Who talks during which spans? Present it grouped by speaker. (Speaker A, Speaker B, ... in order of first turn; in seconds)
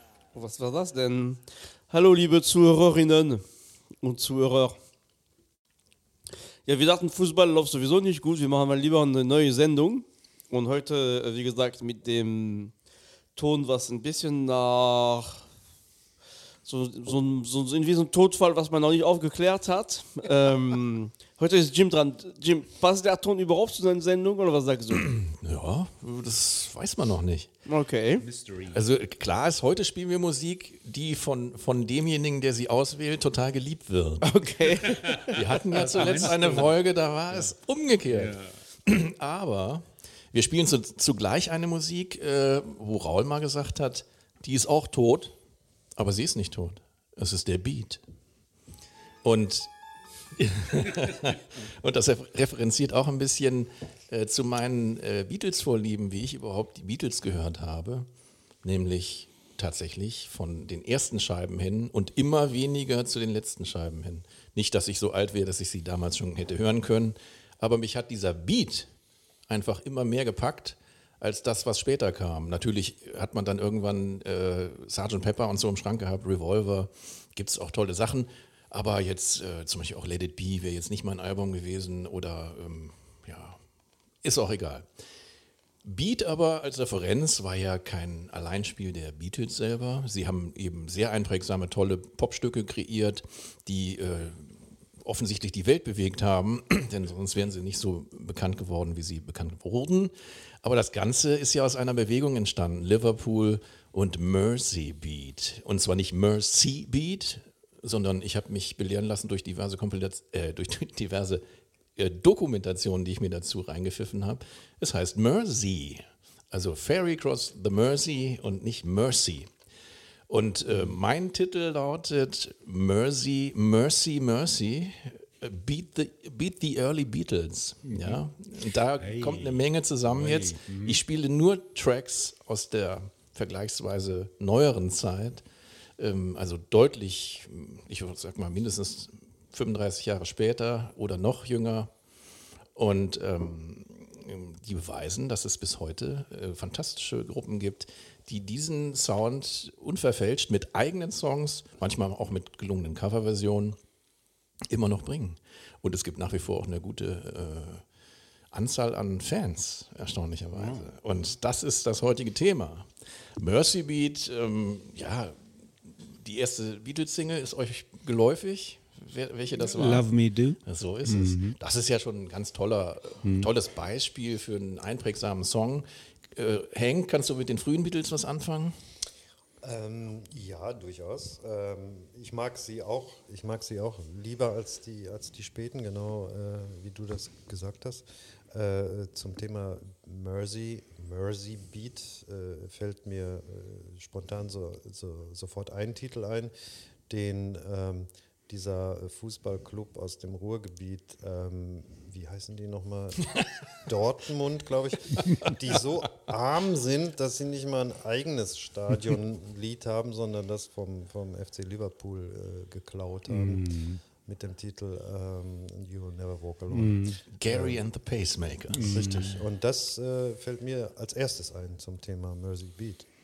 Speaker A: 0.3-3.5, 4.0-4.8, 6.7-12.7, 13.3-15.4, 16.6-25.1, 27.6-28.2, 34.2-35.4
Speaker B: 25.0-27.5, 28.7-34.3, 35.3-45.3, 46.0-48.0, 49.2-49.7, 50.4-58.1, 58.6-68.9, 69.5-83.6, 84.2-84.8, 85.8-94.5, 95.0-111.4, 112.0-119.5, 120.3-135.4, 136.0-141.9, 142.8-153.8, 154.7-157.8, 158.5-165.4, 166.1-170.1, 170.6-178.8, 217.3-219.3
Speaker C: 28.2-28.8, 34.8-36.7, 38.1-38.5, 120.7-121.0, 127.9-128.2, 129.0-131.0, 160.5-160.9, 169.5-171.6, 173.2-173.5, 213.3-214.0, 216.7-217.2, 218.7-219.4
Speaker D: 179.6-196.5, 197.1-217.8, 218.7-223.1